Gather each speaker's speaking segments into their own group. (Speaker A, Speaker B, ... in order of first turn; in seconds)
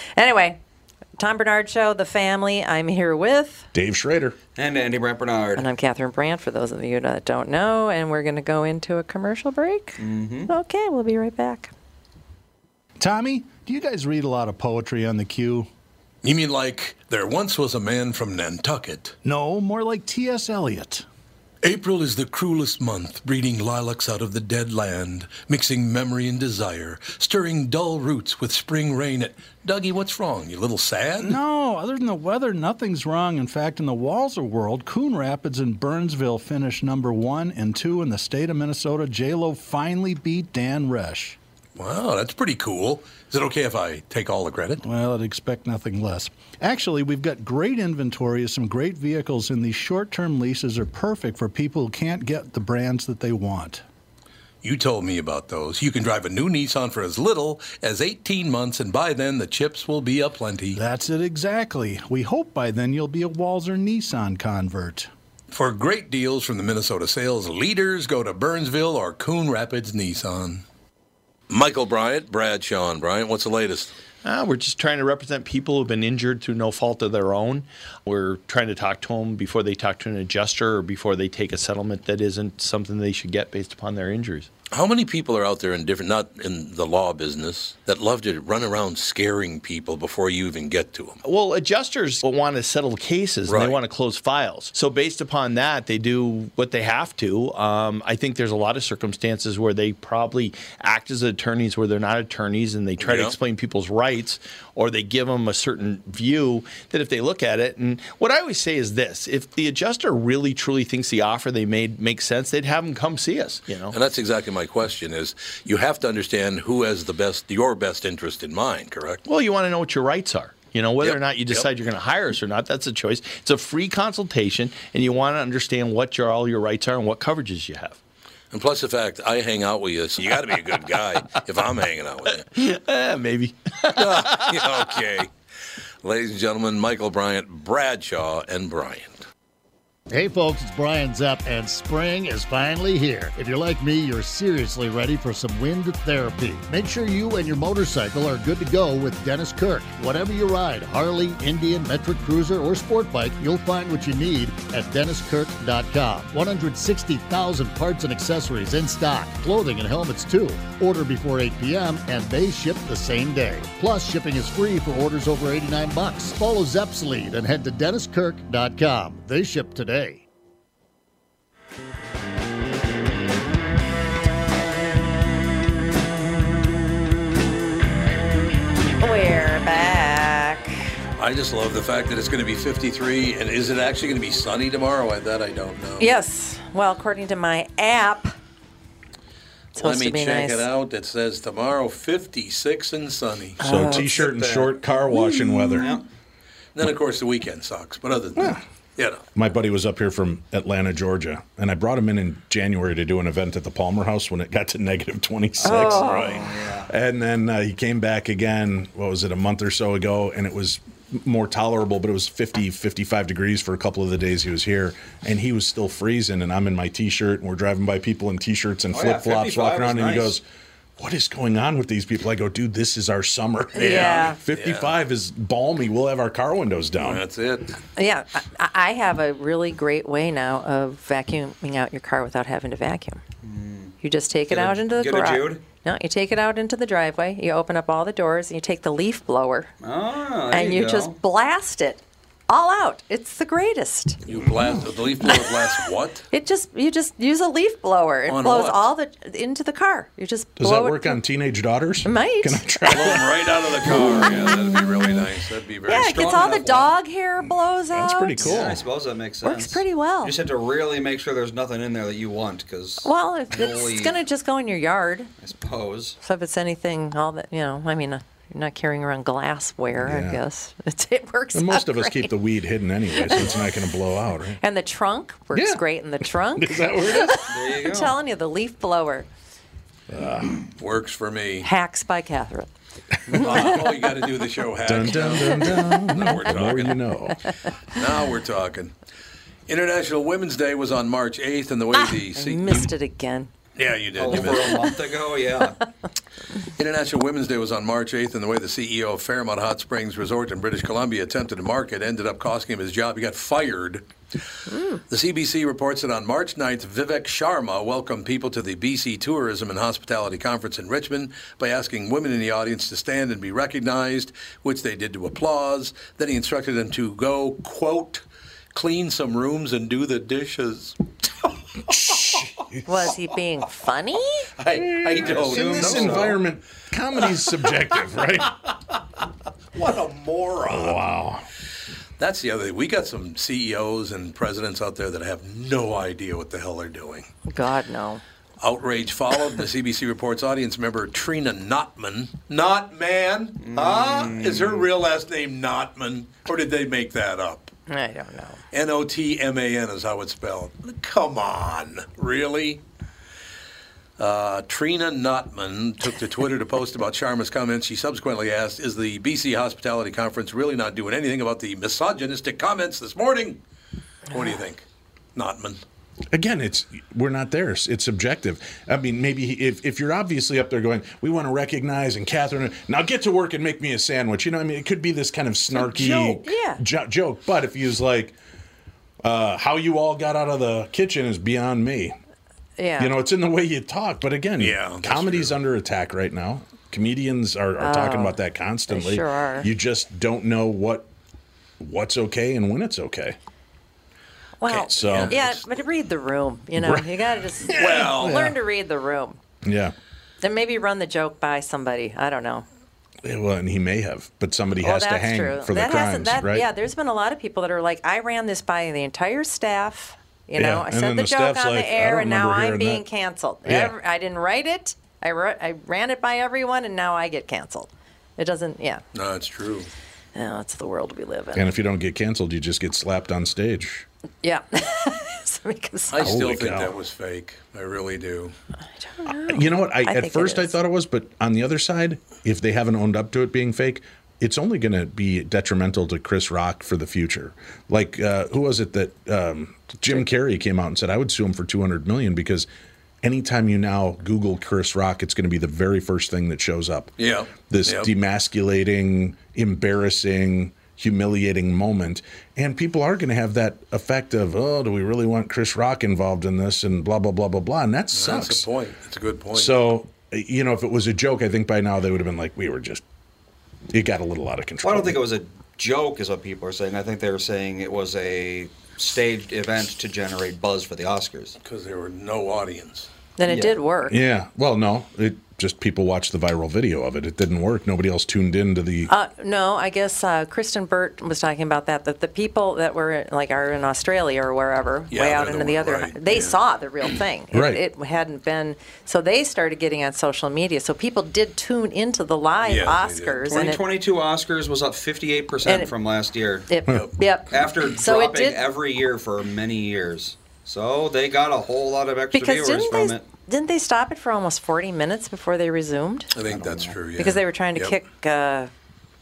Speaker A: 0.2-0.6, 1.2-3.7, 5.6-11.7, 179.0-180.9, 186.0-188.3, 189.8-190.7, 193.6-194.1, 205.6-206.4, 223.8-224.4, 228.0-233.2, 234.0-239.7, 240.5-244.2, 246.3-251.2, 252.1-252.6, 255.9-258.6, 259.4-260.4, 263.0-265.3, 266.2-272.4, 273.1-273.7, 274.6-279.3, 281.6-282.7, 283.3-283.6, 291.9-293.5, 304.7-305.0, 322.9-324.5, 337.5-338.2, 347.9-348.6, 375.7-376.8, 382.8-383.1, 387.8-388.4, 388.9-389.7, 394.6-399.4, 400.4-402.6, 404.8-419.0, 420.4-421.7, 424.4-426.3, 429.0-430.8, 473.4-474.2, 479.1-493.8, 495.6-495.9, 496.7-498.6, 502.3-506.3, 507.2-508.7
Speaker B: 3.7-4.4, 193.6-196.0, 198.4-198.6, 199.3-206.2, 206.9-220.4, 221.0-227.2, 250.6-254.5, 257.9-258.9, 270.0-270.4, 271.5-274.6, 275.5-275.8, 276.6-277.5, 280.1-280.7, 283.4-283.6, 284.8-287.4, 321.9-323.1, 324.7-328.5, 330.7-331.4, 366.3-378.4, 379.2-382.2, 383.0-391.1, 391.8-393.4, 394.7-395.4, 396.8-397.1, 397.6-398.6, 399.6-399.9, 403.2-406.7, 410.6-413.1, 413.7-413.9, 421.6-424.1, 426.2-426.9, 429.3-442.7, 443.2-458.7, 459.5-463.0, 463.9-465.2, 474.1-479.1, 487.5-487.8
Speaker C: 4.6-5.7, 10.0-10.5, 193.7-196.0, 205.6-206.9, 218.9-220.4, 233.4-234.0, 234.5-235.6, 239.8-241.2, 255.9-256.9, 258.4-264.2, 265.4-266.2, 277.5-278.1, 294.2-295.8, 325.2-326.4, 343.6-344.9, 464.8-471.6, 473.5-473.8, 493.5-496.7, 497.5-503.2, 506.4-507.0
Speaker D: 13.0-15.7, 19.2-21.1, 31.2-41.4, 44.8-53.8, 60.7-65.1
Speaker E: 16.2-19.2, 21.6-31.4, 41.8-44.8, 54.6-60.8, 65.5-70.6, 71.5-74.0, 84.7-91.2, 93.5-93.8, 103.0-103.4, 113.9-119.2, 121.0-121.7, 128.5-132.5, 133.9-135.3, 136.0-139.2, 181.2-186.1, 189.8-193.6, 196.8-199.2, 206.0-206.5, 223.7-224.9, 227.0-227.8, 244.3-246.3, 248.3-248.9, 252.9-256.2, 280.8-281.7, 283.3-287.0, 287.9-288.9, 289.7-292.9, 293.8-294.9, 296.8-304.1, 305.1-321.0, 321.9-322.4, 324.6-326.4, 329.8-331.0, 332.2-337.3, 338.6-347.7, 348.7-352.8, 354.2-363.6, 364.3-365.8, 384.6-385.6, 395.0-395.6, 397.7-398.5, 419.1-419.9, 426.1-428.5, 447.2-448.1, 458.1-459.8, 471.6-473.1, 485.1-487.1, 492.6-493.7, 506.3-507.9
Speaker F: 74.2-84.5, 91.2-114.0, 119.3-128.0, 132.5-134.8
Speaker G: 140.1-170.2